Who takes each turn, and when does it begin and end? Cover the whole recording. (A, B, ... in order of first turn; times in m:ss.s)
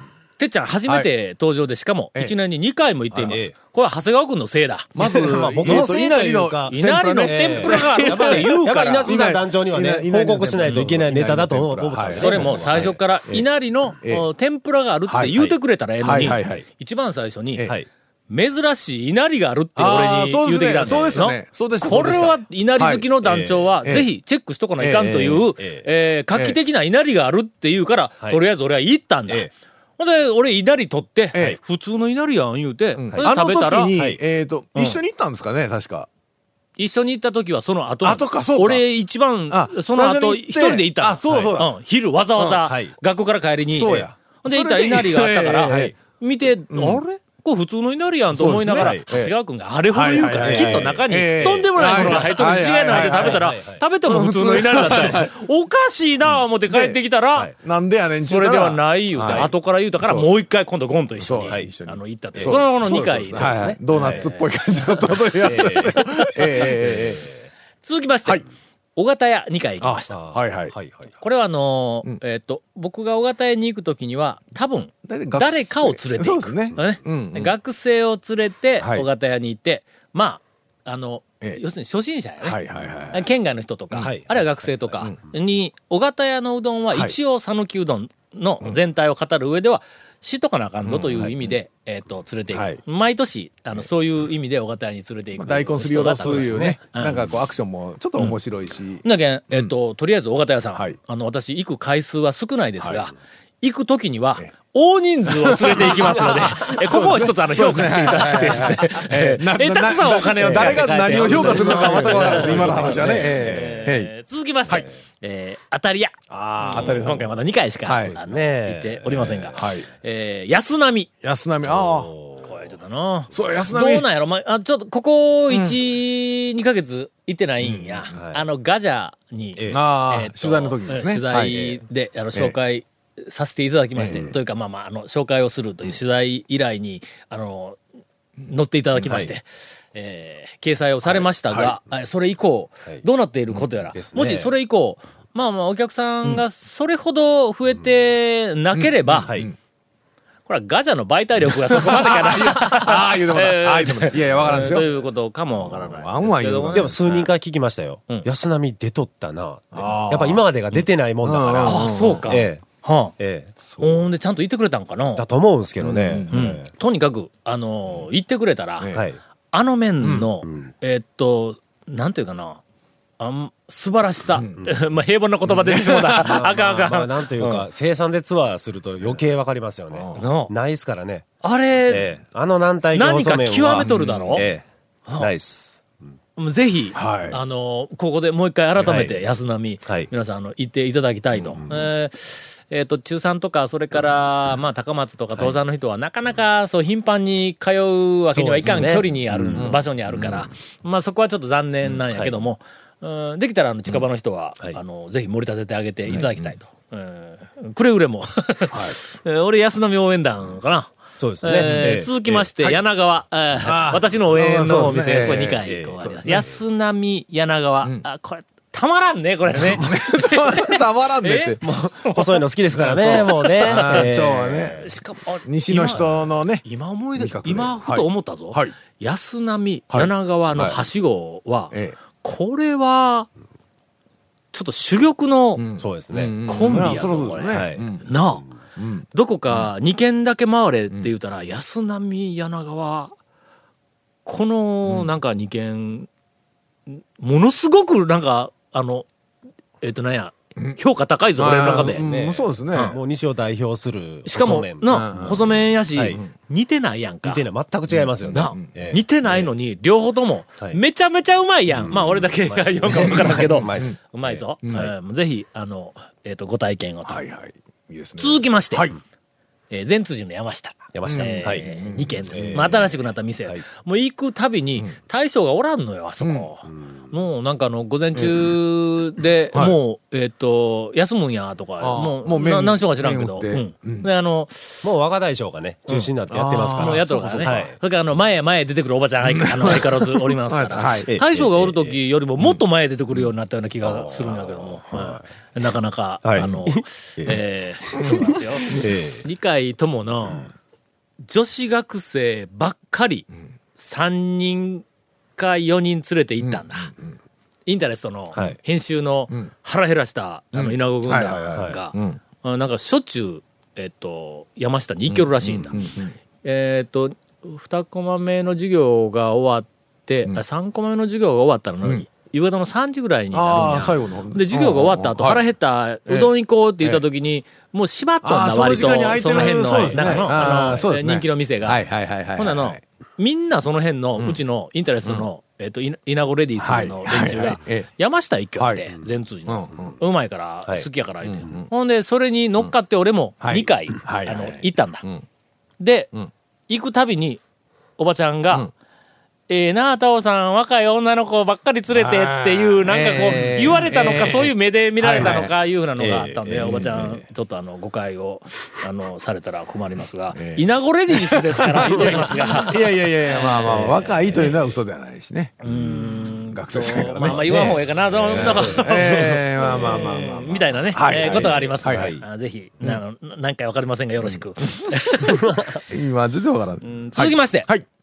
0:00.4-0:05.0 A
0:03.1-0:03.4 B
0:03.3-0:03.5 C
0:05.0-0:12.9 B
0:05.0-0:13.4 C
0:06.7-0:09.1 A
0:12.2-0:17.7 A
0:15.1-0:15.4 B
0:16.0-0:16.6 B
0:18.3-0:33.9 A
0:19.8-0:24.1 B
0:20.8-0:21.2 C
0:24.8-0:25.4 B
0:25.1-0:25.9 C
0:31.3-0:31.6 B
0:33.0-0:36.1 B
0:36.8-0:57.5 A
0:38.0-0:38.8 B
0:39.5-0:41.7 B
0:42.6-0:42.9 C
0:43.7-0:45.9 B
0:46.7-0:47.0 B
0:48.3-0:49.3 B
0:48.7-0:49.0 C
0:49.9-0:53.4 B
0:50.4-0:51.0 C
0:51.8-0:52.3 C
0:52.9-0:53.8 C
0:54.1-0:55.3 B
0:56.7-0:57.0 B
0:57.6-1:00.3 B
0:58.2-1:04.5 A
0:59.2-0:59.5 C
1:01.2-1:07.3 B
1:02.4-1:04.3 C
1:05.4-1:06.0 C
1:05.4-1:06.7 A
1:06.7-1:07.4 C
1:07.8-1:08.4 A
1:09.0-1:10.2 A
1:09.8-1:10.7 B
1:10.1-1:11.1 C
1:11.2-1:22.6 A
1:15.0-1:17.5 B
1:18.8-1:19.1 B
1:22.4-1:23.3 B
1:23.1-1:37.2 A
1:24.0-1:24.9 C
1:30.8-1:31.5 B
1:32.5-1:32.8 B
1:35.4-1:39.7 B
1:36.2-1:36.8 C
1:39.0-2:01.1 A
1:45.2-1:54.1 B
1:50.4-1:53.9 C
1:56.3-1:57.3 B
1:57.8-1:58.2 B
1:58.1-1:59.7 C
1:59.6-1:59.9 B
2:01.2-2:02.1 B
2:01.7-2:02.5 C
2:02.4-2:17.8 A
2:03.3-2:04.1 B
2:05.5-2:05.8 B
2:07.6-2:08.1 B
2:08.1-2:08.4 C
2:09.6-2:09.8 C
2:09.7-2:11.6 B
2:11.5-2:11.8 C
2:14.0-2:14.3 B
2:18.5-2:29.3 A
2:19.0-2:19.3 C
2:22.9-2:24.5 C
2:28.8-2:29.6 B
2:29.2-2:29.5 C
2:30.5-2:37.2 A
2:31.5-2:34.9 B
2:35.6-2:37.3 B
2:36.7-2:42.6 C
2:39.7-2:42.4 B
2:41.6-2:43.1 A
2:43.2-2:43.5 C
2:43.7-2:44.0 B
2:43.8-2:45.2 A
2:45.2-2:46.7 C
2:45.8-2:46.4 B
2:46.3-2:48.9 A
2:48.8-2:49.0 B
2:48.9-2:49.2 C
2:49.5-2:52.6 A
2:50.4-2:50.7 C
2:53.2-2:57.6 A
2:54.4-2:54.6 B
2:55.6-2:56.3 B
2:56.0-3:01.3 C
2:59.9-3:00.2 B
3:00.2-3:00.5 A
3:01.4-3:02.1 A
3:01.9-3:04.6 C
3:03.0-3:04.5 A
3:03.8-3:04.4 B
3:05.2-3:06.0 C
3:06.4-3:44.1 A
3:07.0-3:07.4 B
3:08.8-3:09.2 C
3:09.8-3:10.1 C
3:11.4-3:11.9 C
3:18.3-3:20.5 C
3:22.0-3:22.4 C
3:28.7-3:29.0 B
3:31.2-3:32.5 C
3:33.6-3:36.4 B
3:34.7-3:35.0 C
3:35.5-3:36.4 C
3:39.5-3:41.6 B
3:39.6-3:39.9 C
3:41.6-3:44.9 C
3:42.9-3:44.9 B
3:44.8-3:53.3 A
3:45.4-3:46.6 B
3:47.2-3:48.7 B
3:49.9-3:50.8 B
3:54.5-3:55.7 A
3:55.6-3:58.0 B
3:55.8-3:57.9 C
3:56.4-3:58.4 A
3:58.8-3:59.1 B
3:59.1-4:03.2 A
4:04.2-4:06.1 A
4:06.9-4:09.1 A
4:09.8-4:12.0 A
4:11.4-4:13.0 B
4:11.6-4:16.2 C
4:14.3-4:17.4 A
4:14.9-4:15.6 B
4:17.2-4:19.5 C
4:18.3-4:18.7 B
4:18.3-4:27.2 A
4:21.8-4:24.9 C
4:27.1-4:29.0 B
4:28.2-4:28.9 A
4:29.7-4:44.8 A
4:30.9-4:31.7 C
4:31.1-4:32.6 B
4:32.2-4:33.6 C
4:36.2-4:36.5 B
4:38.2-4:38.5 B
4:39.5-4:39.8 B
4:41.8-4:44.1 B
4:44.8-4:47.8 C
4:45.9-4:47.7 B
4:46.7-5:00.5 A
4:49.2-4:49.9 B
4:50.4-4:51.1 B
4:51.1-4:52.6 C
4:53.8-4:55.2 C
4:56.2-4:57.4 C
4:57.9-4:59.2 C
4:58.0-4:58.4 B
5:01.2-5:04.8 A
5:05.4-5:06.9 A
5:06.4-5:07.1 B
5:07.7-5:15.8 A
5:10.5-5:12.2 B
5:11.4-5:11.8 C
5:15.1-5:16.2 B
5:16.4-5:31.8 A
5:23.3-5:25.4 B
5:26.1-5:27.0 B
5:28.2-5:32.8 B
5:29.3-5:30.8 C
5:32.4-5:45.0 A
5:36.6-5:37.9 B
5:38.6-5:38.8 B
5:39.5-5:39.9 B
5:41.2-5:41.7 B
5:43.4-5:45.3 B
5:45.8-5:46.1 A
5:46.7-5:47.4 A
5:48.0-5:48.7 A
5:49.5-6:04.5 A
5:51.9-5:55.5 B
5:55.1-5:57.2 C
6:00.4-6:05.6 B
6:01.8-6:02.8 C
6:03.7-6:04.5 C
6:05.6-6:15.8 A
6:05.6-6:08.9 C
6:06.5-6:12.2 B
6:09.6-6:10.3 C
6:11.1-6:12.2 C
6:15.9-6:17.9 B
6:16.8-6:17.7 A